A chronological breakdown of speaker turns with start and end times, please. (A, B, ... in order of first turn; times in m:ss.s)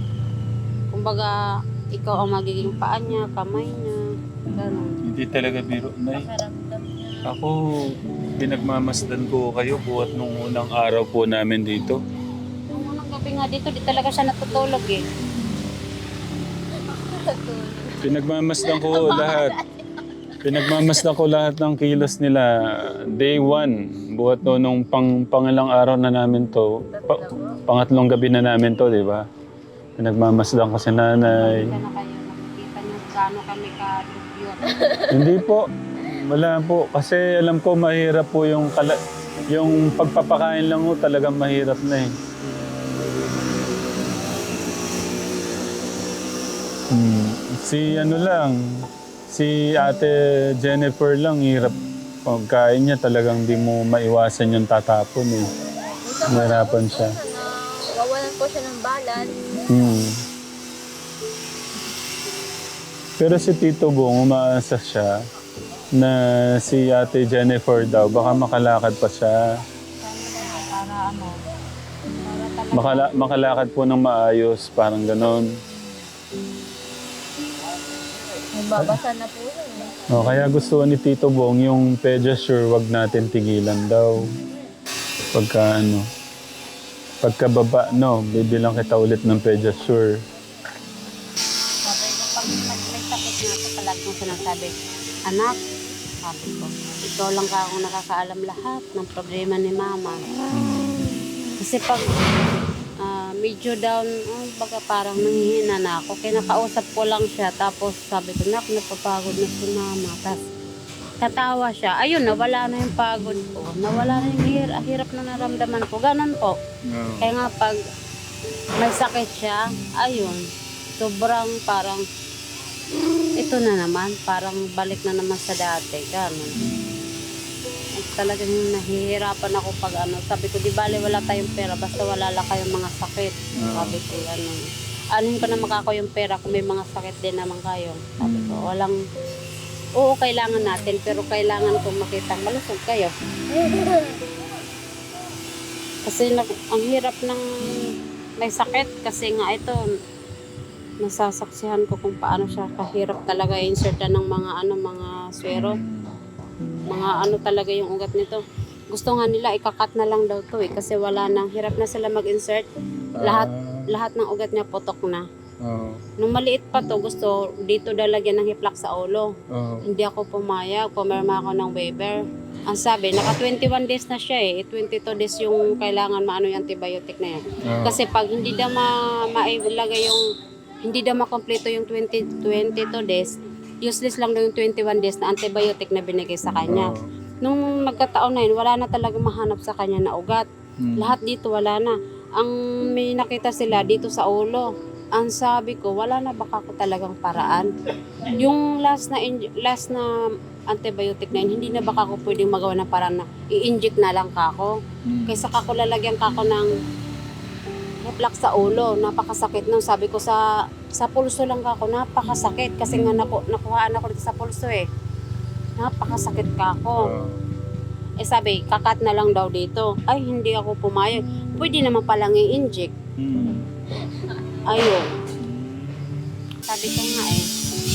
0:00.9-0:01.4 A
0:01.9-0:04.0 A
0:04.5-0:06.3 B
0:04.5-0:04.9 A
0:06.1-0:07.3 C
0:07.3-0:07.6 B
0:08.4-0:12.0 B
0:12.7-0:15.0 A
0:16.9-0:18.0 C
0:18.0-0:19.6 B
0:18.6-0:19.6 C
0:20.4-0:29.2 B
0:20.6-0:21.1 C
0:26.9-0:27.6 C
0:30.0-0:31.6 B
0:31.3-0:34.8 A
0:35.1-0:39.0 B
0:39.5-0:42.1 B
0:46.9-0:48.6 B
0:49.3-0:55.5 B
0:55.8-0:59.4 C
0:56.3-0:57.2 B
0:59.7-1:00.1 B
1:03.2-1:05.1 B
1:06.0-1:09.4 B
1:10.0-1:11.4 A
1:12.3-1:13.4 A
1:12.7-1:15.5 B
1:18.5-1:19.9 C
1:20.1-1:24.1 B
1:25.3-1:26.0 B
1:27.2-1:30.2 B
1:31.9-1:34.8 A
1:35.3-1:35.6 A
1:36.2-1:40.2 A
1:40.5-1:41.0 B
1:41.6-1:42.2 A
1:43.0-1:50.4 A
1:51.2-1:56.5 A
1:56.9-1:57.3 B
1:57.2-1:57.8 A
1:58.8-2:00.4 A
2:01.0-2:02.0 A
2:03.4-2:06.6 A
2:06.6-2:07.0 B
2:08.0-2:14.6 A
2:13.6-2:14.0 B
2:15.2-2:19.0 A
2:18.2-2:18.6 B
2:20.0-2:23.1 A
2:26.0-2:27.8 A
2:28.4-2:29.8 A
2:31.0-2:35.8 A
2:35.5-2:36.1 B
2:36.9-2:38.4 A
2:38.9-2:42.7 A
2:43.2-2:43.9 B
2:43.2-2:45.2 A
2:45.6-2:46.0 B
2:46.2-2:49.3 A
2:49.5-2:49.8 B
2:49.9-2:52.2 A
2:52.7-3:00.2 A
2:57.7-2:58.0 B
3:00.8-3:03.3 A
3:03.8-3:06.9 A
3:06.7-3:07.0 B
3:07.4-3:10.5 A
3:10.8-3:11.2 B
3:11.0-3:17.7 A
3:18.3-3:20.1 A
3:20.7-3:24.7 A
3:25.1-3:25.4 B
3:25.3-3:26.7 A
3:28.0-3:30.4 A
3:31.0-3:34.8 A
3:32.9-3:33.2 B
3:35.8-3:37.0 A
3:37.1-3:37.4 B
3:38.2-3:42.9 A
3:43.2-3:43.6 B
3:44.7-3:45.0 A
3:45.4-3:46.0 B
3:46.7-3:47.4 A